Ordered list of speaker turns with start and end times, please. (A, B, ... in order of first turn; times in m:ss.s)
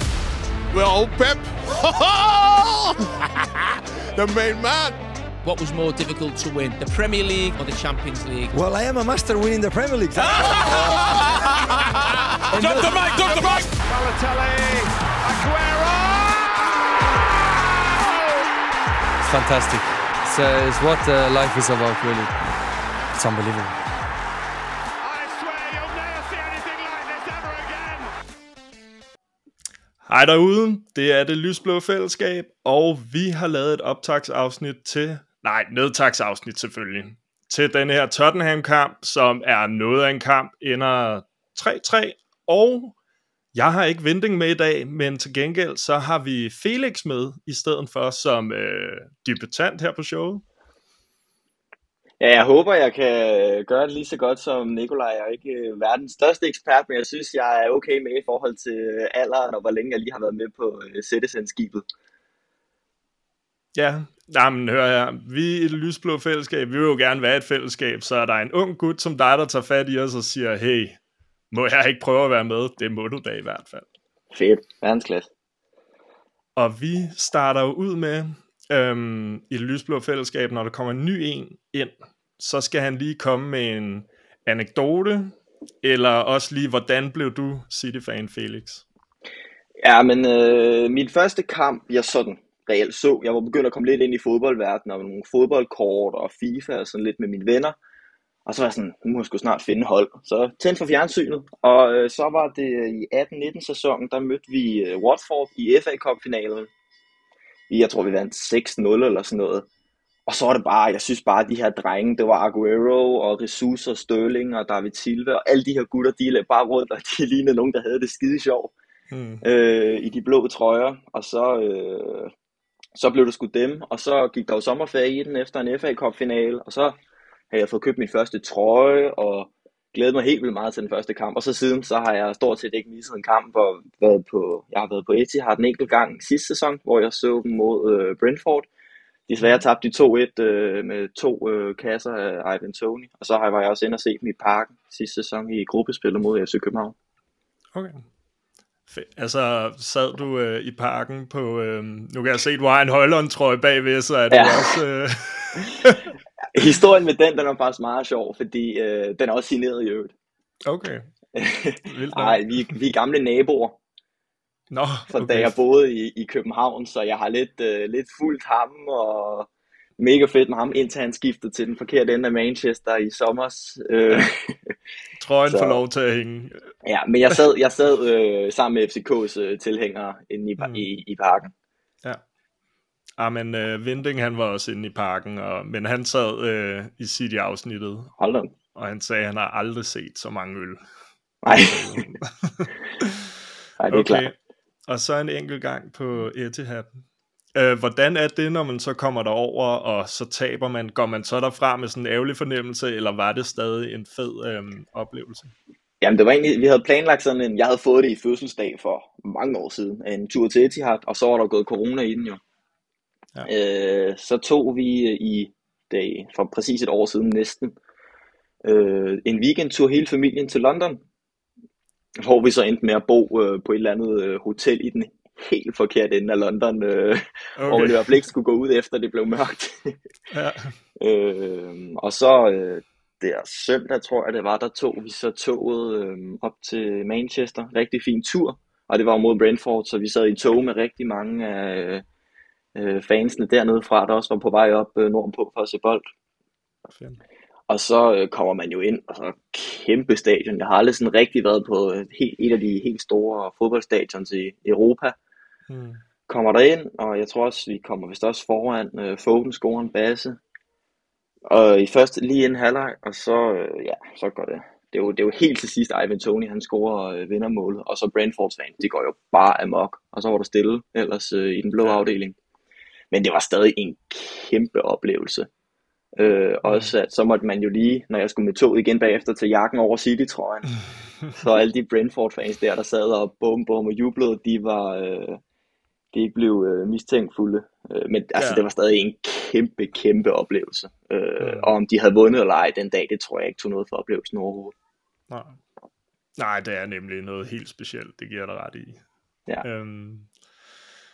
0:00.7-0:03.1 A
0:04.2-0:05.0 A
0:05.4-0:08.5 B
0:08.5-0:11.1 C
0:10.2-0:13.7 A
0:12.5-0:13.4 B
0:12.6-0:18.3 D
0:12.6-0:12.9 C
0:19.2-0:22.4 E
0:23.2-0:23.8 E
0:25.0-0:28.1 D
0:30.0-0:42.9 F
0:43.5-0:50.4 F
0:52.2-1:01.8 G
1:03.7-1:11.0 F
1:11.5-1:13.8 F
1:14.3-1:15.3 G
1:16.6-1:28.8 F
1:29.8-1:37.8 G
1:38.4-1:46.7 G
1:47.7-1:49.7 G
1:50.2-1:58.7 G
1:59.1-1:59.4 F
1:59.4-2:02.3 G
2:02.9-2:07.0 G
2:07.5-2:18.7 G
2:19.3-2:26.9 G
2:27.7-2:28.0 F
2:28.9-2:36.1 F
2:34.3-2:34.8 G
2:36.5-2:40.1 G
2:40.6-2:41.0 F
2:41.3-2:43.8 G
2:41.8-2:42.8 F
2:44.7-2:45.6 F
2:45.1-2:54.7 G
2:55.2-2:56.6 F
2:55.5-2:55.8 G
2:56.8-3:01.5 G
3:00.6-3:00.8 F
3:03.2-3:08.1 F
3:08.2-3:08.5 G
3:08.7-3:10.8 F
3:11.4-3:12.1 G
3:11.4-3:13.3 F
3:13.8-3:14.3 G
3:13.9-3:14.3 F
3:14.9-3:17.0 F
3:17.5-3:25.5 F
3:26.0-3:32.4 G
3:33.4-3:37.7 G
3:38.6-3:41.0 G
3:42.2-3:50.0 G
3:47.6-3:48.2 F
3:50.3-3:50.7 F
3:51.0-4:02.0 G
4:02.7-4:06.0 G
4:06.9-4:07.2 F
4:07.7-4:15.1 G
4:15.7-4:16.0 F
4:16.3-4:20.4 G
4:21.5-4:32.4 G
4:33.1-4:35.5 G
4:36.2-4:40.7 G
4:36.6-4:36.9 F
4:41.3-4:45.4 G
4:46.1-4:54.7 G
4:48.4-4:48.6 F
4:51.4-4:51.7 F
4:55.3-4:55.6 F
4:56.4-4:59.0 F
4:59.6-5:00.3 F